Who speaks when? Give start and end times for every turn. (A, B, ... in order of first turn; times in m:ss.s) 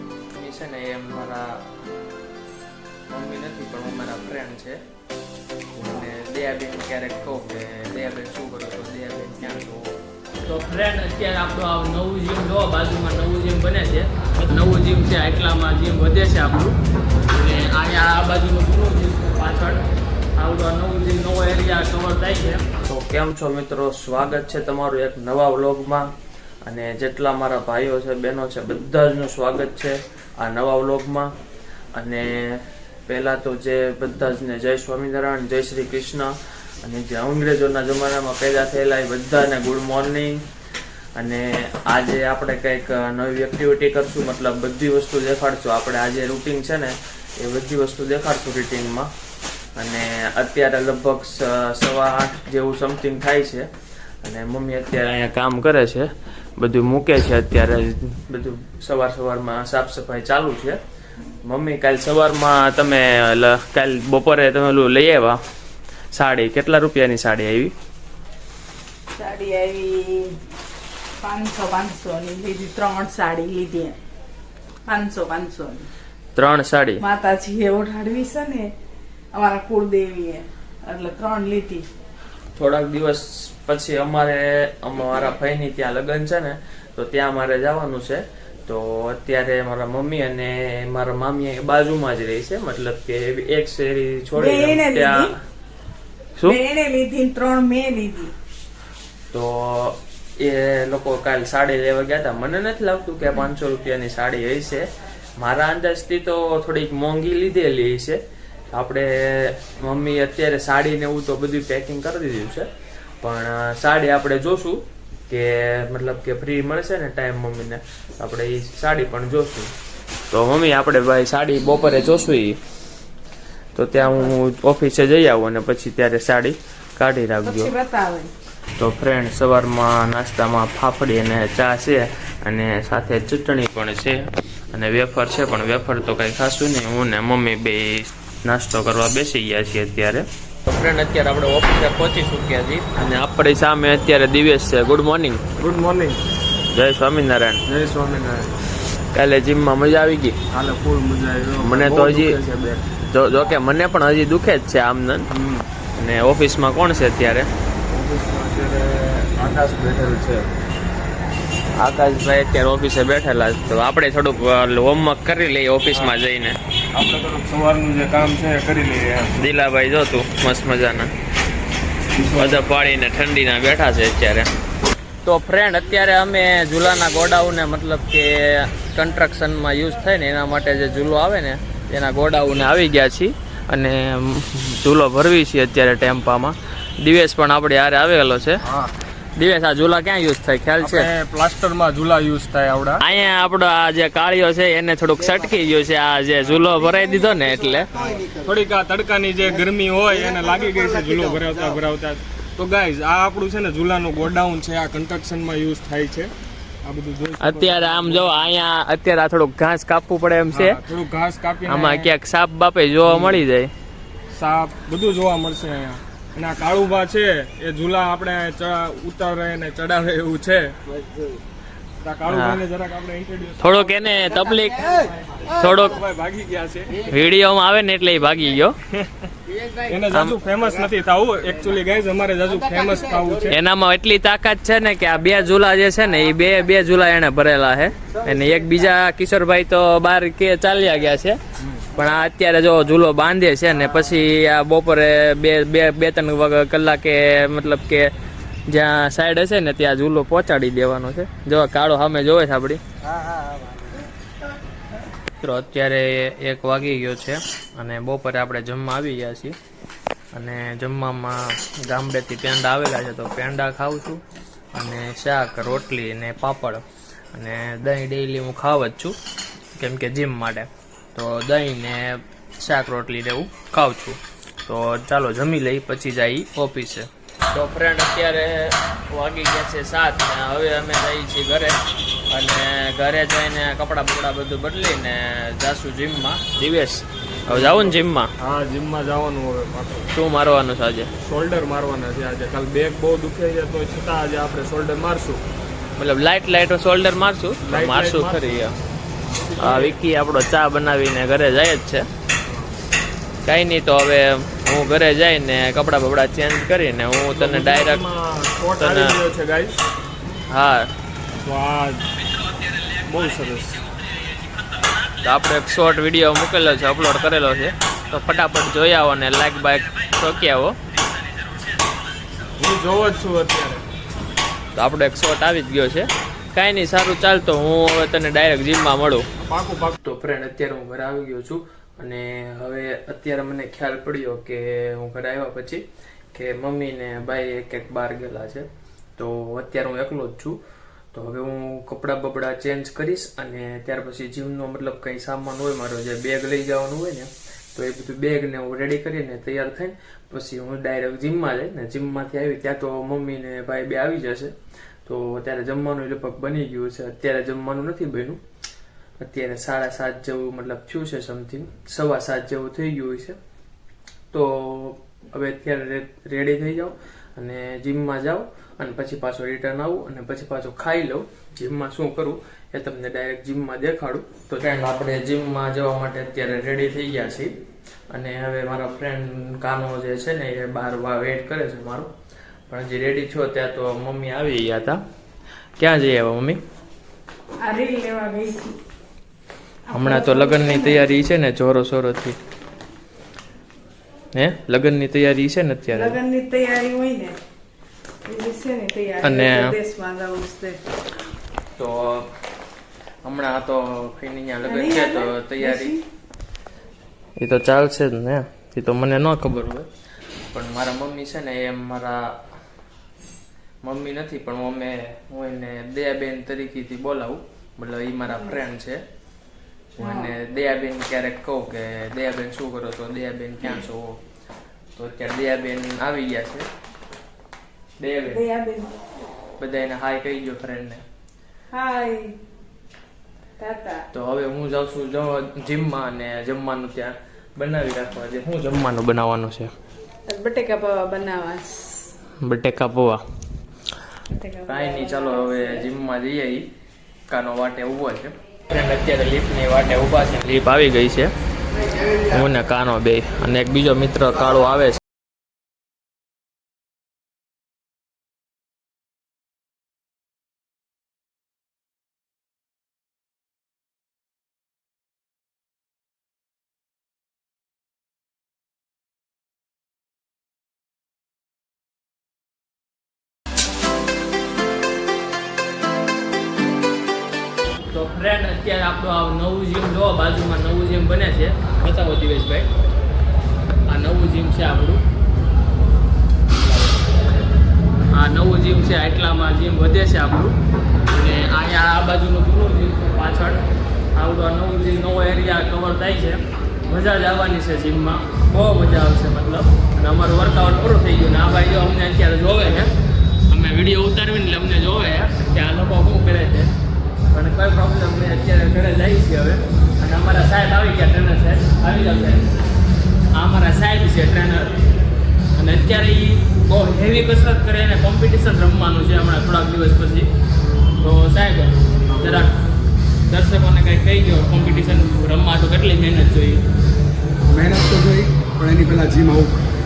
0:00.3-0:01.6 A
0:03.1-0:04.8 A
0:05.8-0:16.8 A
0:17.3-0:19.8 A
0:20.4-0:26.1 A
0:26.6-0:31.3 A
0:31.9-0:40.4 A
0:41.2-0:49.1 A
0:49.8-0:53.7 A
0:54.2-1:00.8 A
1:01.4-1:05.4 A
1:06.1-1:07.7 A
1:09.1-1:10.4 B
1:11.2-1:14.0 B
1:14.9-1:15.9 B
1:16.3-1:17.0 A
1:17.0-1:18.7 B
1:19.3-1:21.9 B
1:22.5-1:35.3 A
1:34.3-1:35.3 B
1:36.4-1:38.3 B
1:39.3-1:52.7 A
1:53.2-1:59.7 A
2:00.3-2:02.6 A
2:03.7-2:07.7 A
2:07.4-2:08.3 B
2:08.8-2:25.4 A
2:25.6-2:26.2 C
2:26.7-2:27.6 A
2:27.7-2:28.5 C
2:29.1-2:30.4 A
2:30.5-2:32.8 C
2:31.6-2:35.3 A
2:35.3-2:35.7 C
2:36.0-2:37.5 A
2:37.9-2:40.5 C
2:41.7-2:46.6 A
2:46.9-2:49.3 C
2:49.4-2:51.1 A
2:52.2-2:52.7 C
2:52.3-2:54.5 A
2:55.2-3:08.6 A
3:08.6-3:08.9 C
3:09.4-3:11.1 A
3:10.8-3:13.0 C
3:13.0-3:18.1 A
3:18.0-3:26.3 C
3:26.8-3:28.4 C
3:27.4-3:30.8 A
3:30.5-3:32.1 C
3:31.6-3:33.7 A
3:33.0-3:33.4 C
3:34.3-3:40.8 C
3:42.0-3:43.9 C
3:42.3-3:42.6 A
3:43.6-3:46.0 A
3:45.7-3:47.1 C
3:47.0-3:48.8 A
3:49.8-3:53.6 C
3:50.1-3:50.4 A
3:53.5-4:01.4 A
4:01.9-4:08.1 A
4:08.7-4:12.8 A
4:15.4-4:19.6 A
4:20.3-4:29.2 A
4:29.7-4:48.3 A
4:47.5-4:50.1 C
4:50.1-4:51.1 A
4:51.2-4:55.4 C
4:56.0-4:58.8 A
4:57.6-4:58.6 C
4:59.3-4:59.9 C
4:59.6-5:02.1 A
5:02.4-5:02.7 C
5:03.4-5:08.0 A
5:07.3-5:09.8 C
5:08.8-5:09.2 A
5:10.5-5:10.9 A
5:11.4-5:12.0 C
5:13.0-5:13.8 C
5:15.2-5:20.8 A
5:22.6-5:23.8 C
5:24.7-5:29.3 A
5:29.4-5:30.0 C
5:30.0-5:40.6 A
5:41.1-5:58.4 A
5:59.2-6:03.4 A
6:04.3-6:17.5 A
6:18.1-6:22.1 A
6:22.7-6:25.0 A
6:25.8-6:26.6 A
6:27.6-6:28.8 B
6:29.9-6:31.1 B
6:29.9-6:32.4 A
6:34.3-6:36.2 A
6:35.9-6:37.4 B
6:38.2-6:40.8 B
6:39.2-6:39.7 A
6:41.8-6:42.3 A
6:43.2-6:45.9 A
6:44.6-6:46.0 B
6:47.4-6:49.9 A
6:50.5-6:52.4 A
6:53.8-6:59.0 A
7:00.0-7:04.2 A
7:00.0-7:00.3 B
7:05.0-7:06.7 A
7:08.0-7:08.4 A
7:08.3-7:08.9 B
7:09.6-7:11.0 A
7:11.7-7:12.4 B
7:13.6-7:14.1 B
7:14.1-7:19.7 A
7:20.3-7:22.1 B
7:22.4-7:23.2 A
7:24.3-7:25.9 B
7:24.7-7:26.7 A
7:27.3-7:31.3 A
7:32.3-7:35.0 A
7:57.9-8:02.7 A
8:03.9-8:05.0 A
8:08.1-8:10.6 A
8:11.1-8:13.6 A
8:14.1-8:22.9 A
8:23.5-8:26.7 A
8:27.3-8:32.5 A
8:33.3-8:34.7 A
8:35.5-8:40.3 A
8:41.0-8:42.6 A
8:43.3-8:46.6 A
8:47.5-8:49.6 D